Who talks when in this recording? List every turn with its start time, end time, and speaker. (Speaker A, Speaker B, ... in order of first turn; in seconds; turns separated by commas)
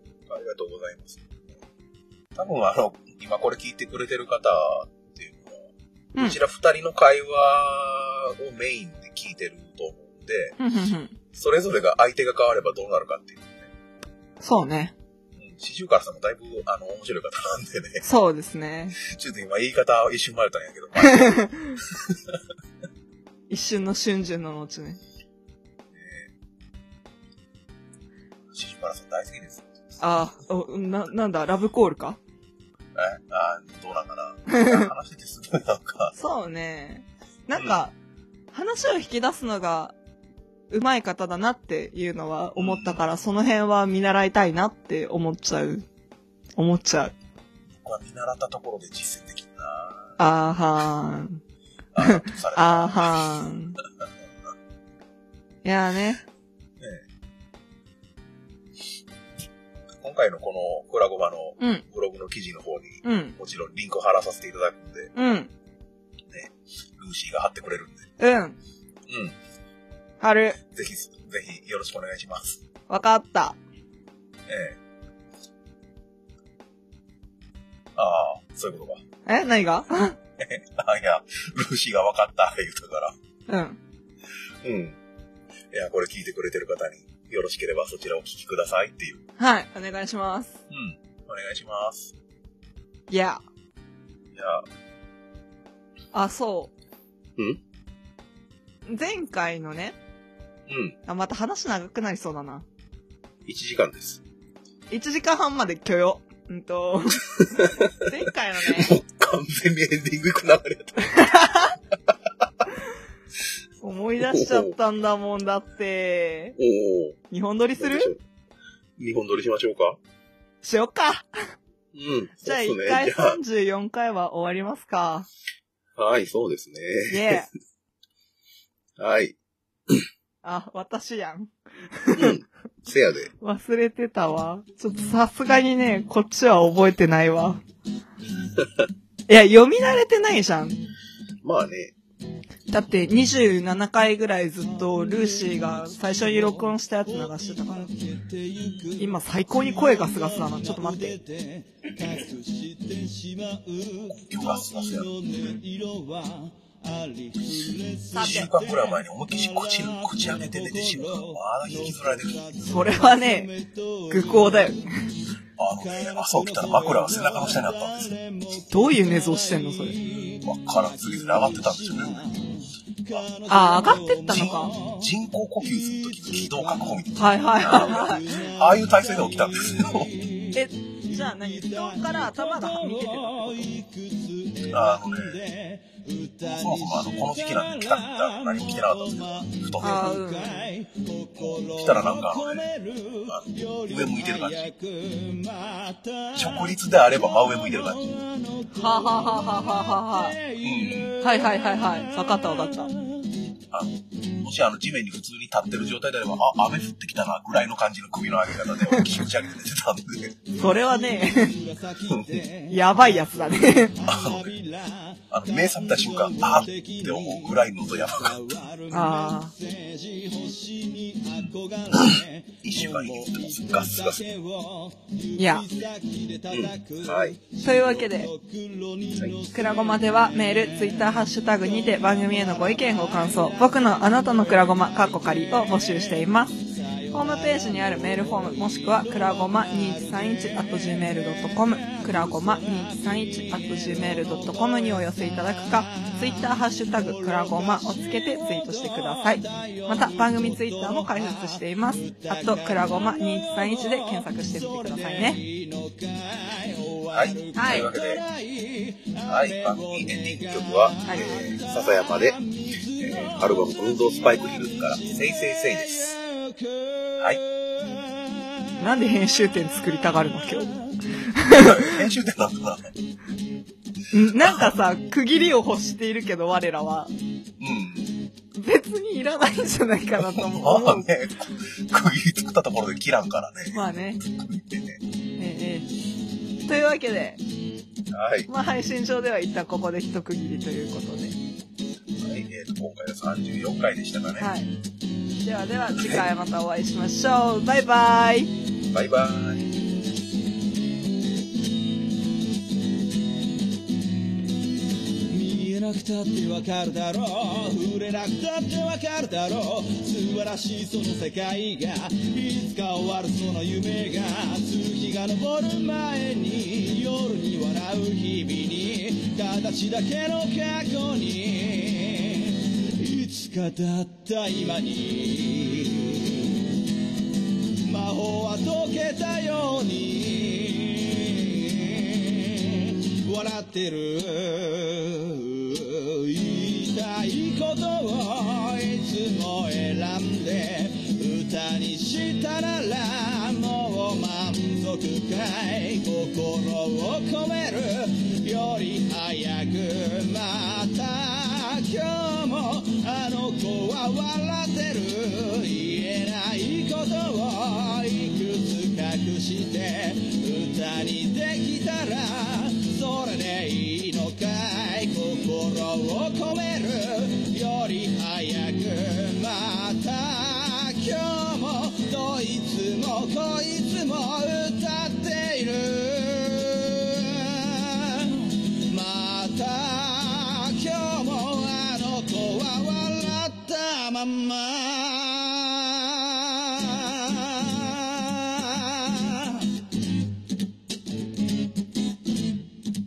Speaker A: 0.3-1.5, Speaker A: 2.3-5.6, Speaker A: 6.2-10.6, Speaker B: 10.6-11.1, Speaker A: 11.3-13.7, Speaker B: 14.4-14.9, Speaker A: 15.4-18.0, Speaker B: 18.0-19.0, Speaker A: 19.0-22.4, Speaker B: 21.0-21.8, Speaker B: 23.5-25.0, Speaker A: 25.9-26.3, Speaker A: 28.5-29.7, Speaker B: 30.0-32.2, Speaker A: 32.9-36.2, Speaker B: 34.5-34.9, Speaker B: 36.1-37.9, Speaker A: 37.5-37.8, Speaker B: 38.5-39.9, Speaker B: 40.7-45.8, Speaker A: 42.6-43.0, Speaker B: 46.6-47.1, Speaker A: 47.7-50.1, Speaker B: 50.2-51.4, Speaker A: 51.9-53.1, Speaker B: 52.0-53.8, Speaker B: 55.6-56.2, Speaker A: 56.8-57.0, Speaker A: 60.0-65.1, Speaker B: 61.6-61.8, Speaker B: 63.0-63.4, Speaker B: 65.1-65.5, Speaker A: 66.3-68.0, Speaker B: 68.2-68.6, Speaker A: 69.1-69.3, Speaker B: 70.2-70.6, Speaker A: 70.7-72.6, Speaker B: 72.9-73.6, Speaker A: 74.5-74.8, Speaker A: 77.9-79.0, Speaker B: 79.2-80.2, Speaker A: 80.4-83.2, Speaker B: 83.5-83.8, Speaker A: 84.6-85.0, Speaker A: 85.7-89.2, Speaker B: 89.4-90.6, Speaker A: 90.7-92.1, Speaker B: 93.1-93.4, Speaker A: 94.3-94.7, Speaker B: 96.1-96.7, Speaker B: 98.9-100.0, Speaker A: 100.7-101.0, Speaker B: 101.0-102.7, Speaker A: 103.5-104.2, Speaker B: 104.9-108.9, Speaker A: 107.4-108.1, Speaker A: 108.6-111.4, Speaker B: 111.0-111.8, Speaker B: 113.8-116.5, Speaker A: 114.2-114.7, Speaker A: 116.6-117.2, Speaker B: 117.3-118.1, Speaker A: 117.8-118.2, Speaker A: 119.0-120.0, Speaker B: 120.6-121.3, Speaker A: 121.9-123.4, Speaker B: 122.4-125.3, Speaker A: 126.0-127.4, Speaker B: 127.1-127.5, Speaker A: 129.0-129.3, Speaker B: 130.4-132.4, Speaker A: 132.1-133.3, Speaker B: 133.4-137.6, Speaker B: 139.3-140.8, Speaker A: 141.4-141.9, Speaker B: 142.7-147.9, Speaker C: 144.6-164.8, Speaker A: 148.6-148.9, Speaker B: 149.0-151.2, Speaker A: 154.1-155.1, Speaker B: 158.1-158.5, Speaker A: 158.2-162.8, Speaker B: 162.7-163.5, Speaker B: 164.1-164.8, Speaker A: 165.6-168.1, Speaker C: 165.8-203.3, Speaker B: 168.7-170.0, Speaker A: 170.4-172.2, Speaker B: 173.5-174.7, Speaker A: 174.3-180.2, Speaker B: 177.2-178.2, Speaker B: 180.5-183.7, Speaker A: 184.7-185.5, Speaker A: 186.4-190.2, Speaker B: 189.8-190.7, Speaker A: 191.4-192.7, Speaker A: 193.2-194.7, Speaker A: 196.3-198.1, Speaker B: 198.7-200.4, Speaker A: 200.6-201.1, Speaker B: 201.2-202.9, Speaker A: 203.7-210.3, Speaker C: 210.5-268.8, Speaker B: 210.6-211.5, Speaker A: 212.1-212.4, Speaker B: 212.7-213.9, Speaker A: 214.0-214.5, Speaker A: 215.3-218.6, Speaker B: 218.9-219.5, Speaker A: 221.4-224.3, Speaker B: 225.4-225.7, Speaker A: 226.5-227.4, Speaker B: 227.6-228.3, Speaker B: 229.5-236.6, Speaker B: 237.1-255.4, Speaker A: 257.1-258.2, Speaker B: 257.5-257.9, Speaker A: 259.2-262.4, Speaker A: 263.0-266.2, Speaker B: 268.8-272.0, Speaker A: 271.5-272.9, Speaker B: 274.1-277.1, Speaker A: 274.4-274.7, Speaker A: 277.6-278.1, Speaker B: 278.5-281.1, Speaker A: 280.2-285.0, Speaker B: 283.7-284.2, Speaker B: 285.4-285.9, Speaker B: 286.6-287.4, Speaker A: 288.1-288.5, Speaker B: 288.5-291.4, Speaker A: 292.2-294.5, Speaker B: 294.4-294.7, Speaker B: 295.4-298.5, Speaker A: 295.9-296.2, Speaker A: 298.9-299.9, Speaker C: 305.3-326.6, Speaker C: 327.9-389.7